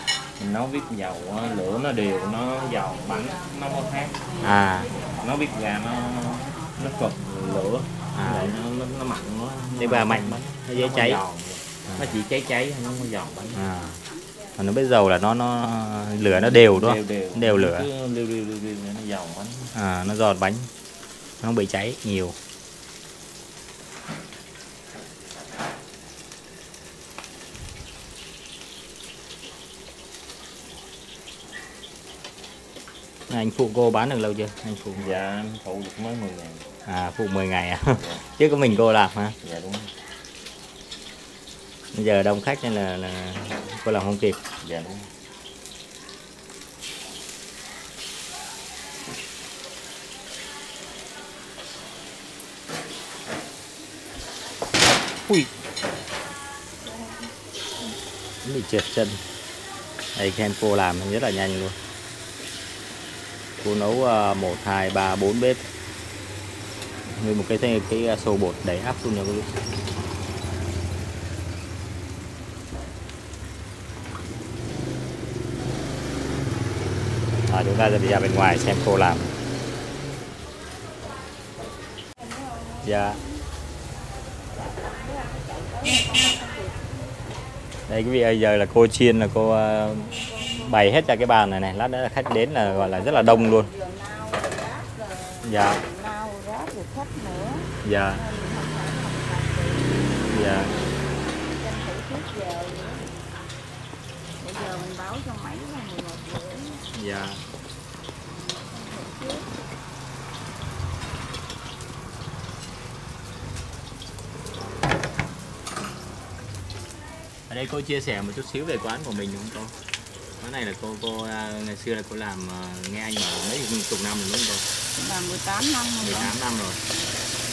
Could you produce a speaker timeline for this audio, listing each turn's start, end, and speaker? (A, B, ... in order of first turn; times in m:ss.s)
0:00.4-0:04.3 A
0:01.6-0:07.7 B
0:04.4-0:04.9 C
0:04.9-0:13.7 A
0:08.1-0:08.5 C
0:09.8-0:11.2 C
0:11.9-0:12.2 C
0:13.2-0:16.1 B
0:13.5-0:14.0 C
0:14.6-0:17.9 C
0:16.3-0:19.7 A
0:19.7-0:20.7 C
0:21.4-0:22.4 C
0:33.3-0:35.1 C
0:35.0-0:36.6 A
0:36.8-0:39.4 C
0:38.0-0:38.2 A
0:39.4-0:39.9 A
0:41.9-0:44.4 C
0:44.6-0:45.1 A
0:58.4-0:59.2 C
1:00.1-1:01.8 C
1:03.6-1:05.7 C
1:07.2-1:09.5 C
1:17.5-1:19.3 C
1:22.2-1:23.4 B
1:22.8-1:23.2 C
1:24.5-1:26.8 B
1:27.9-1:33.7 C
1:30.0-1:30.9 B
1:32.6-1:43.0 B
1:35.4-1:35.8 C
1:37.8-1:38.2 C
1:40.3-1:40.7 C
1:44.4-1:46.8 B
1:46.9-1:47.4 C
1:48.4-1:49.5 B
1:57.5-1:59.7 C
2:00.4-2:04.6 C
2:05.0-2:06.3 B
2:06.0-2:06.8 C